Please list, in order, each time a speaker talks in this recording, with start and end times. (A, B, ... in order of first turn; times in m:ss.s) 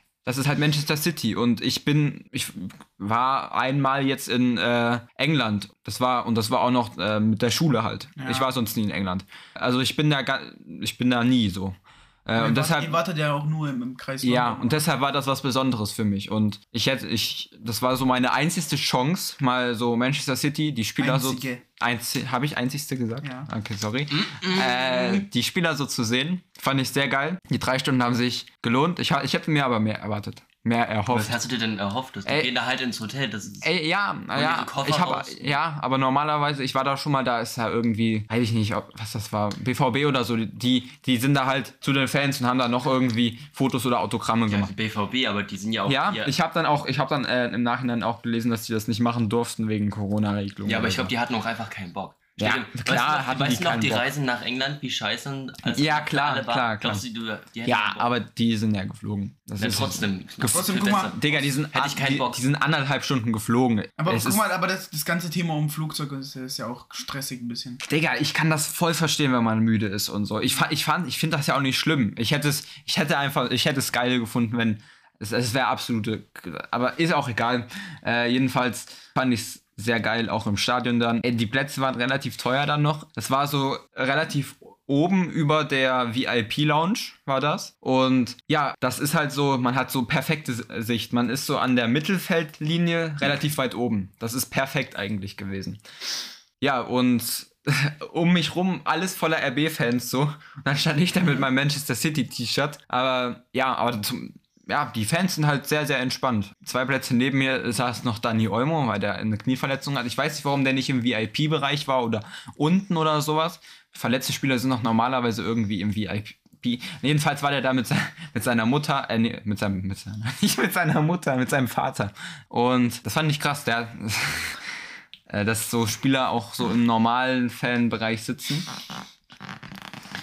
0:00.2-0:13.0 A
0:08.2-0:08.5 B
0:12.4-0:14.9 B
0:14.2-0:31.4 A
0:21.0-0:21.6 B
0:23.2-0:23.5 B
0:24.1-0:25.3 C
0:31.1-0:33.7 C
0:33.6-0:44.7 A
0:34.3-0:35.6 C
0:44.5-0:46.3 C
0:45.9-0:51.1 A
0:50.7-0:58.1 C
0:52.4-0:54.1 A
0:55.7-0:57.0 A
0:57.6-1:04.4 A
0:59.6-1:02.4 C
1:00.5-1:01.2 B
1:04.0-1:07.8 B
1:07.8-1:35.8 A
1:36.6-2:04.6 A
2:05.3-2:08.7 A